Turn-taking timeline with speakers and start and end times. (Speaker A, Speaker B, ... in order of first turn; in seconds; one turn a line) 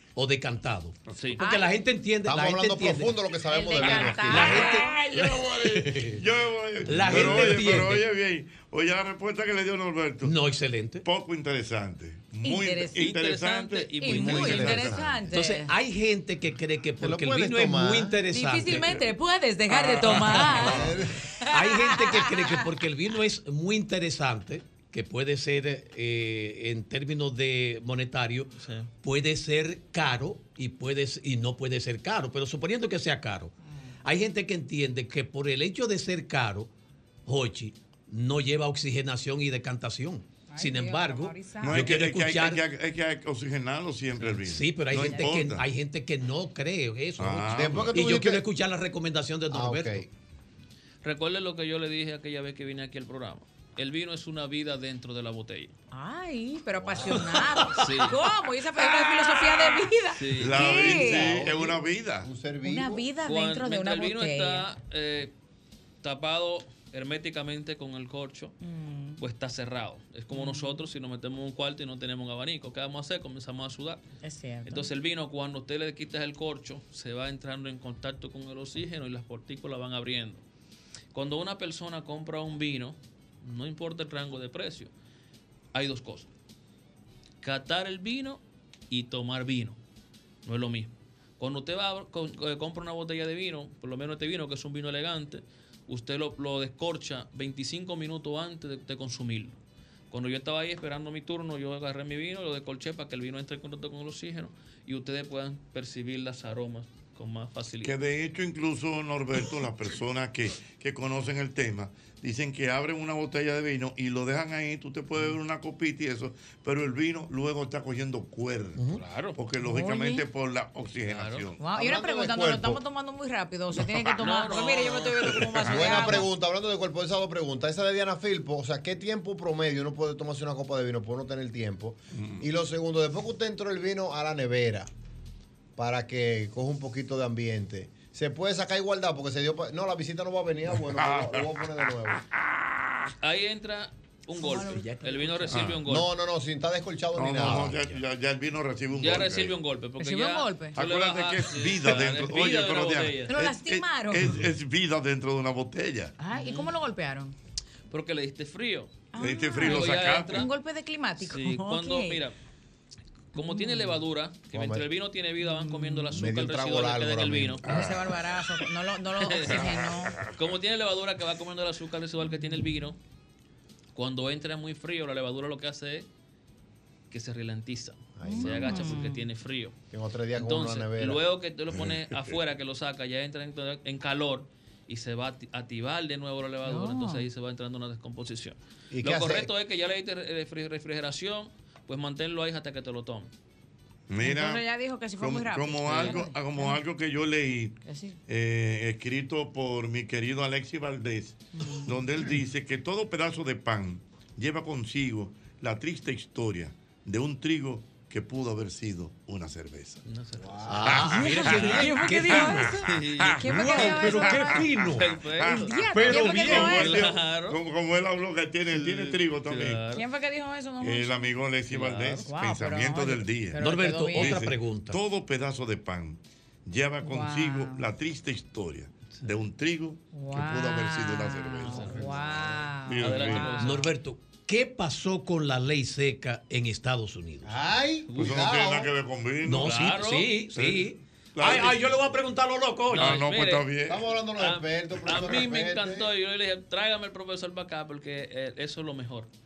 Speaker A: 0.2-3.2
Speaker B: 1.1-1.4
Speaker C: 1.4-1.8
Speaker D: 2.3-4.8
Speaker C: 3.5-5.2
Speaker A: 4.0-6.2
Speaker E: 4.8-10.4
Speaker A: 6.8-8.0
Speaker A: 10.2-11.0
Speaker E: 11.0-15.1
Speaker C: 12.4-13.0
Speaker B: 13.0-14.7
Speaker C: 13.9-15.7
Speaker D: 14.4-15.2
Speaker A: 15.3-19.0
Speaker D: 17.0-18.2
Speaker C: 18.2-20.9
Speaker A: 19.8-20.9
Speaker E: 20.0-20.4
Speaker D: 20.5-21.2
Speaker C: 21.5-22.6
Speaker A: 21.5-33.5
Speaker B: 28.6-28.9
Speaker A: 34.0-36.7
Speaker A: 37.3-42.6
Speaker C: 40.5-41.9
Speaker E: 41.6-45.6
Speaker A: 44.3-50.1
Speaker C: 45.0-45.3
Speaker E: 47.2-48.0
Speaker D: 47.5-48.4
Speaker D: 49.5-50.0
Speaker B: 51.0-55.7
Speaker C: 55.9-61.3
Speaker D: 56.8-57.3
Speaker B: 57.8-58.1
Speaker B: 60.1-60.6
Speaker E: 60.4-62.3
Speaker D: 60.7-63.1
Speaker C: 62.6-64.7
Speaker B: 63.2-65.3
Speaker B: 66.0-68.5
Speaker C: 68.6-69.2
Speaker B: 69.2-74.0
Speaker C: 70.3-70.9
Speaker C: 74.2-74.9
Speaker B: 74.7-80.4
Speaker B: 81.1-84.9
Speaker B: 85.7-86.3
Speaker B: 87.4-89.8
Speaker B: 90.5-99.6
Speaker B: 100.1-107.9
Speaker E: 107.8-118.8
Speaker A: 118.8-119.0
Speaker B: 119.0-119.4
Speaker E: 119.4-121.6
Speaker C: 119.6-120.2
Speaker B: 121.1-121.5
Speaker C: 121.6-126.3
Speaker D: 121.7-122.8
Speaker E: 123.8-124.1
Speaker B: 124.2-125.2
Speaker E: 125.2-126.2
Speaker D: 125.6-134.9
Speaker E: 132.2-132.4
Speaker D: 135.8-142.2
Speaker E: 140.9-141.5
Speaker B: 143.2-146.1
Speaker C: 144.4-144.8
Speaker A: 144.7-145.5
Speaker E: 145.5-145.8
Speaker D: 145.8-147.8
Speaker E: 147.2-149.6
Speaker A: 147.5-148.0
Speaker B: 148.9-153.3
Speaker C: 150.0-150.8
Speaker E: 150.7-156.1
Speaker C: 153.3-154.4
Speaker C: 156.2-157.3
Speaker B: 157.9-159.0
Speaker C: 159.1-162.2
Speaker E: 159.2-160.5
Speaker B: 159.7-160.4
Speaker B: 161.2-162.3
Speaker B: 163.3-167.7
Speaker C: 163.3-164.0
Speaker D: 164.5-164.8
Speaker C: 165.4-166.1
Speaker D: 166.1-167.7
Speaker C: 167.7-170.2
Speaker E: 167.7-168.2
Speaker B: 169.2-169.5
Speaker E: 169.6-169.9
Speaker B: 170.2-173.0
Speaker C: 172.2-172.9
Speaker B: 173.9-176.1
Speaker B: 177.1-179.8
Speaker D: 178.2-178.8
Speaker C: 178.2-179.3
Speaker D: 179.9-181.2
Speaker B: 180.3-193.3
Speaker E: 181.7-182.4
Speaker C: 186.6-187.3
Speaker D: 188.9-189.5
Speaker E: 194.1-194.7
Speaker C: 194.2-196.8
Speaker E: 195.2-210.0
Speaker C: 197.9-198.2
Speaker C: 201.6-202.3
Speaker B: 210.1-210.8
Speaker A: 210.7-212.7
Speaker E: 210.9-219.9
Speaker C: 211.1-214.6
Speaker B: 212.9-213.5
Speaker A: 213.6-215.2
Speaker B: 215.0-215.7
Speaker C: 215.6-217.0
Speaker A: 216.0-216.8
Speaker B: 216.4-217.6
Speaker B: 218.8-220.0
Speaker C: 219.9-221.2
Speaker E: 220.8-233.7
Speaker B: 221.7-222.2
Speaker C: 222.2-224.5
Speaker A: 223.6-225.0
Speaker C: 227.0-227.8
Speaker C: 230.2-233.9
Speaker B: 233.0-233.8
Speaker A: 233.7-237.6
Speaker D: 237.4-238.9
Speaker B: 238.1-238.5
Speaker E: 238.2-239.8
Speaker A: 239.4-243.2
Speaker B: 239.6-240.5
Speaker E: 240.5-242.0
Speaker E: 242.9-244.0
Speaker B: 242.9-243.7
Speaker D: 243.9-246.1
Speaker B: 244.4-249.3